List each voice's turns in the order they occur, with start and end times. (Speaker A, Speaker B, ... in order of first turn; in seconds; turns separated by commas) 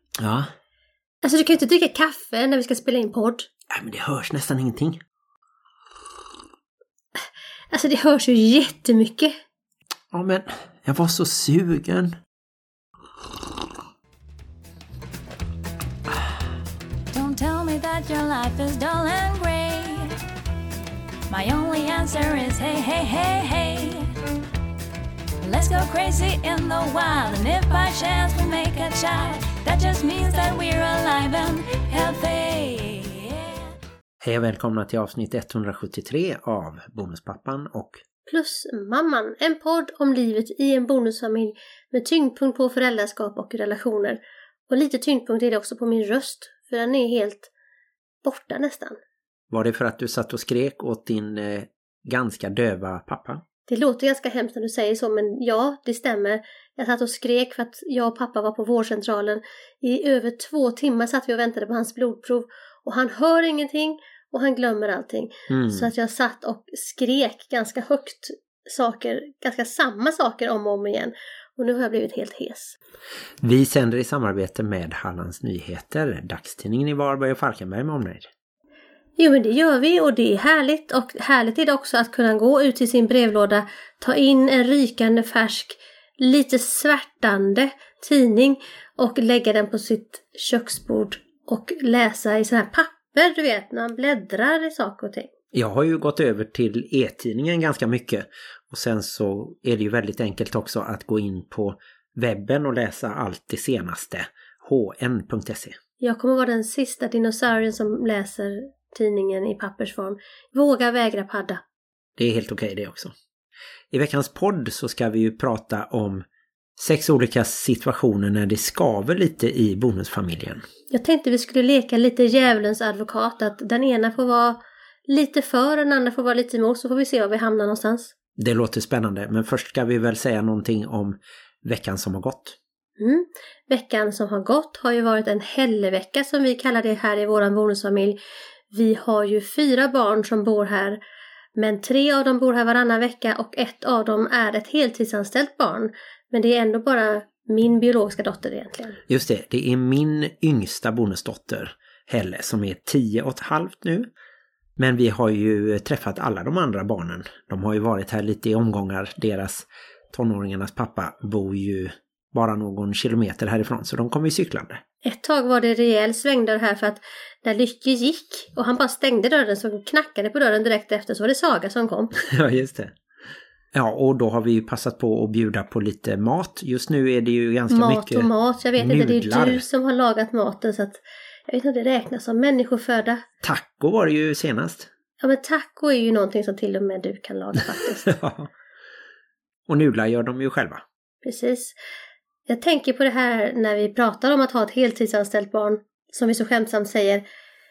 Speaker A: 0.2-0.5, Speaker B: 1.2-3.5, Speaker A: 3.7-5.0, Speaker B: 7.2-9.4, Speaker A: 10.1-12.2, Speaker C: 17.1-20.2, Speaker C: 21.3-24.1, Speaker C: 25.4-33.6, Speaker A: 34.2-38.0, Speaker B: 38.3-47.5, Speaker B: 48.2-49.0, Speaker A: 49.5-53.4, Speaker B: 53.7-72.8, Speaker A: 65.5-65.9, Speaker A: 73.4-78.3, Speaker B: 79.2-95.3, Speaker A: 95.5-105.8, Speaker B: 106.0-111.6, Speaker A: 112.2-113.1, Speaker A: 113.9-116.2, Speaker A: 116.8-120.6, Speaker B: 120.9-128.1, Speaker A: 128.4-132.6, Speaker B: 133.0-138.2, Speaker B: 138.7-141.0, Speaker B: 141.6-149.0, Speaker A: 149.1-154.1, Speaker A: 154.8-164.8, Speaker B: 165.0-172.1, Speaker A: 172.1-172.9, Speaker A: 173.7-179.7, Speaker B: 177.7-183.2, Speaker A: 183.4-184.9, Speaker B: 185.2-188.1, Speaker A: 188.1-188.5, Speaker A: 189.7-190.8, Speaker B: 191.2-191.7, Speaker B: 192.5-197.2